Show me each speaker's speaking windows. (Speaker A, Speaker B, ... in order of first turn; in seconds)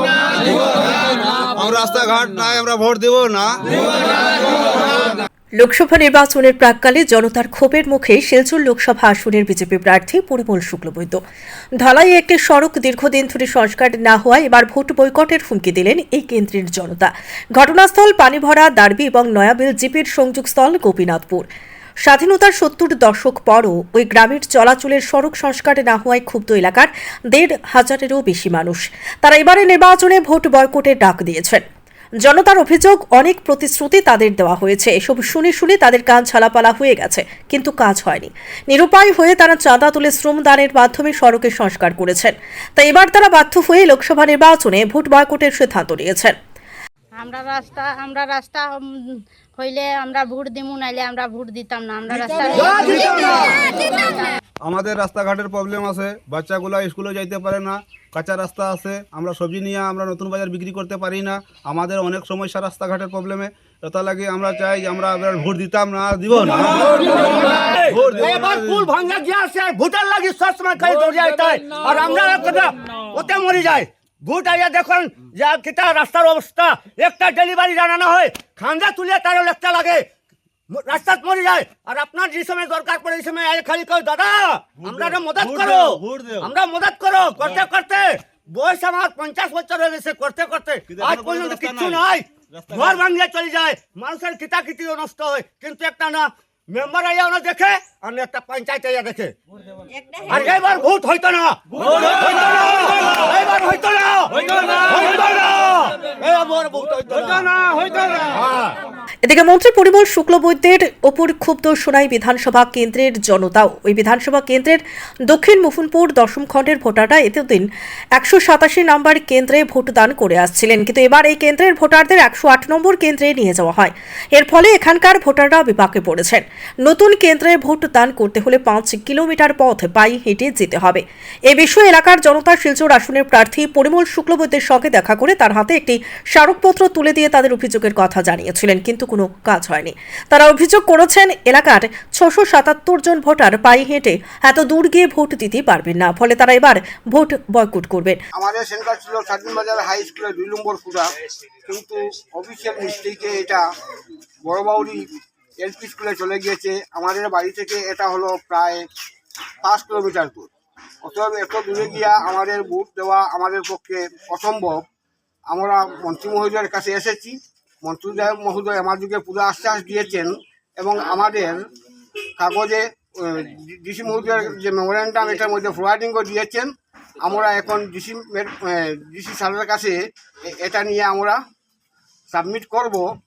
Speaker A: 0.5-0.9, 1.5-4.2, 54.6-67.0, 67.9-68.8, 84.8-86.5, 90.9-93.0
Speaker B: 5.6-11.2, 11.8-21.5, 22.0-31.6, 32.2-46.4, 109.2-148.2
Speaker C: 47.2-54.3
Speaker D: 52.5-53.7, 67.0-80.1, 80.7-99.3, 100.3-108.8
Speaker E: 148.3-151.1, 151.6-153.7, 154.4-155.1, 155.6-158.8, 159.6-160.5, 161.0-164.8, 165.5-171.7, 172.4-181.4, 182.3-183.1